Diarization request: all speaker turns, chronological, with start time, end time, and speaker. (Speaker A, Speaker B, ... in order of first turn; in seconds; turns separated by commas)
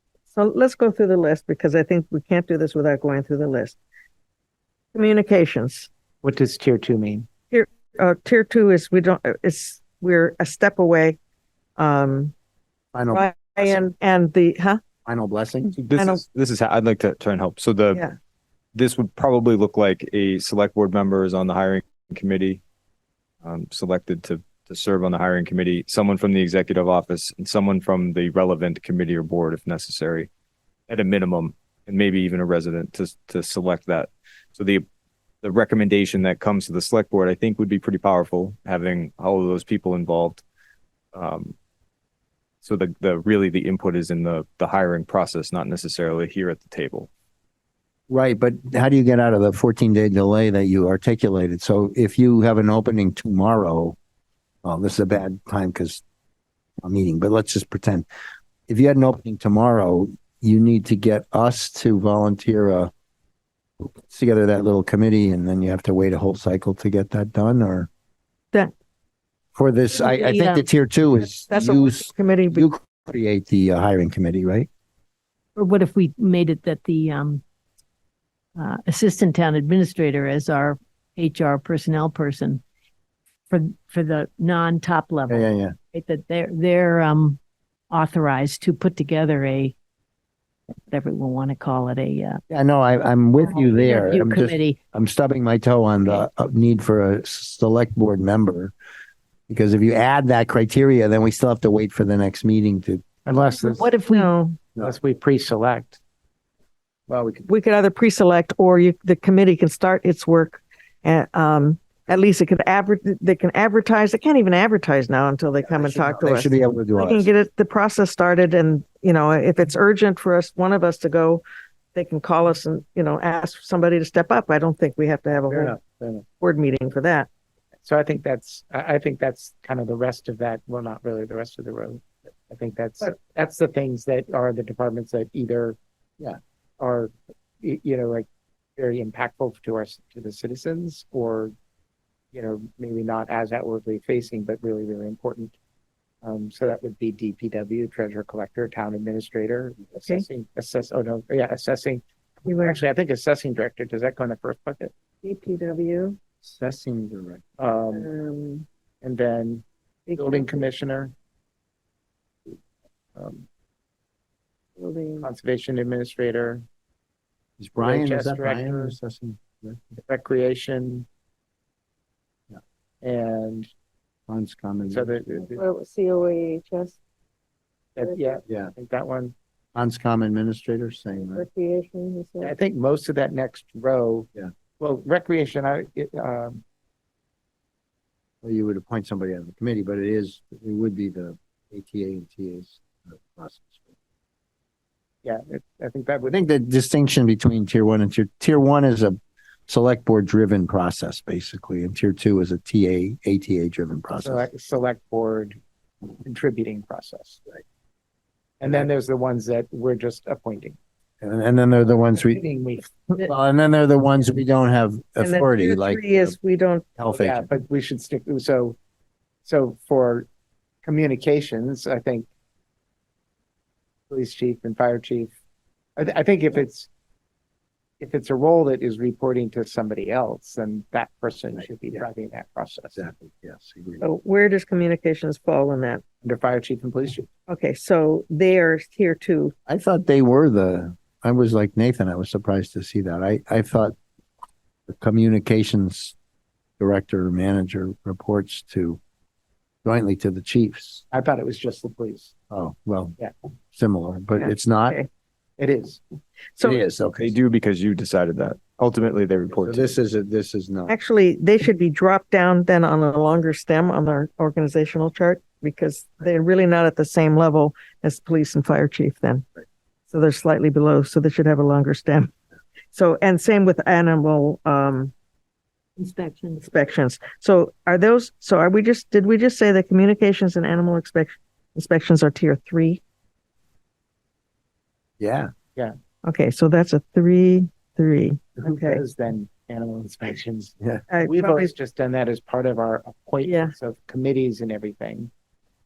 Speaker A: 0.3-3.8, Speaker A: 4.9-5.9, Speaker B: 6.2-7.3, Speaker A: 7.5-11.2, Speaker A: 11.8-12.3, Speaker C: 12.9-13.8, Speaker A: 13.1-14.8, Speaker C: 15.0-15.7, Speaker D: 15.8-18.0, Speaker A: 15.9-16.2, Speaker D: 18.7-22.6, Speaker D: 23.4-30.3, Speaker D: 30.9-34.8, Speaker D: 35.4-40.4, Speaker D: 41.1-41.5, Speaker D: 42.6-47.1, Speaker C: 48.1-54.0, Speaker C: 54.6-56.0, Speaker C: 56.8-58.0, Speaker C: 58.7-62.9, Speaker C: 63.8-67.9, Speaker C: 69.5-74.7, Speaker E: 69.9-70.6, Speaker A: 71.5-72.7, Speaker E: 75.5-77.4, Speaker E: 78.6-82.6, Speaker E: 83.5-87.4, Speaker C: 85.3-85.7, Speaker E: 87.9-89.7, Speaker E: 90.9-92.4, Speaker C: 92.5-98.7, Speaker E: 93.4-94.8, Speaker C: 99.5-103.0, Speaker B: 103.2-103.9, Speaker E: 103.5-104.3, Speaker A: 104.1-104.6, Speaker B: 104.8-106.0, Speaker C: 107.1-107.5, Speaker A: 107.5-121.4, Speaker C: 115.6-117.3, Speaker A: 121.9-125.8, Speaker C: 125.5-126.2, Speaker A: 126.4-127.3, Speaker B: 127.8-135.8, Speaker B: 136.8-141.5, Speaker B: 142.3-145.5, Speaker B: 146.2-154.9, Speaker A: 152.4-152.8, Speaker A: 155.2-156.2, Speaker C: 156.4-157.4, Speaker B: 157.6-158.1, Speaker A: 157.9-158.6, Speaker B: 159.0-159.6, Speaker A: 160.1-160.6, Speaker B: 160.1-161.1, Speaker B: 163.2-163.4, Speaker A: 164.8-165.3, Speaker B: 165.2-166.6, Speaker C: 167.6-169.9, Speaker B: 167.8-168.9, Speaker B: 170.0-171.1, Speaker B: 173.0-173.7, Speaker C: 174.3-175.2, Speaker B: 174.9-175.6, Speaker A: 175.6-177.0, Speaker B: 177.9-179.3, Speaker A: 178.0-178.4, Speaker C: 178.5-178.7, Speaker C: 179.7-181.4, Speaker A: 181.3-182.5, Speaker B: 182.4-186.6, Speaker C: 188.4-193.9, Speaker B: 195.2-196.3, Speaker C: 196.3-204.4, Speaker B: 204.2-205.6, Speaker B: 206.2-207.4, Speaker B: 208.6-210.8, Speaker C: 211.2-212.4, Speaker B: 212.1-213.0, Speaker C: 213.2-216.3, Speaker A: 215.2-216.9, Speaker C: 217.0-217.5, Speaker B: 217.1-218.8, Speaker B: 219.4-220.3, Speaker B: 220.8-222.3, Speaker B: 224.1-225.3, Speaker B: 226.0-226.9, Speaker B: 228.0-233.0, Speaker C: 232.9-234.0, Speaker A: 234.0-236.0, Speaker B: 236.2-237.3, Speaker A: 237.5-239.5, Speaker C: 239.7-243.9, Speaker C: 244.9-246.1, Speaker C: 246.8-249.0, Speaker C: 249.8-251.0, Speaker B: 251.1-252.3, Speaker C: 252.5-253.2, Speaker C: 253.7-255.0, Speaker A: 254.3-255.1, Speaker B: 255.6-256.0, Speaker A: 256.6-256.8, Speaker C: 256.6-257.3, Speaker D: 257.2-259.9, Speaker C: 259.6-261.0, Speaker A: 260.9-269.4, Speaker A: 270.1-272.3, Speaker A: 272.9-275.1, Speaker E: 276.0-276.6, Speaker A: 276.5-283.0, Speaker C: 285.2-285.5, Speaker A: 286.2-289.0, Speaker B: 288.6-295.3, Speaker A: 291.1-291.7, Speaker A: 293.4-293.7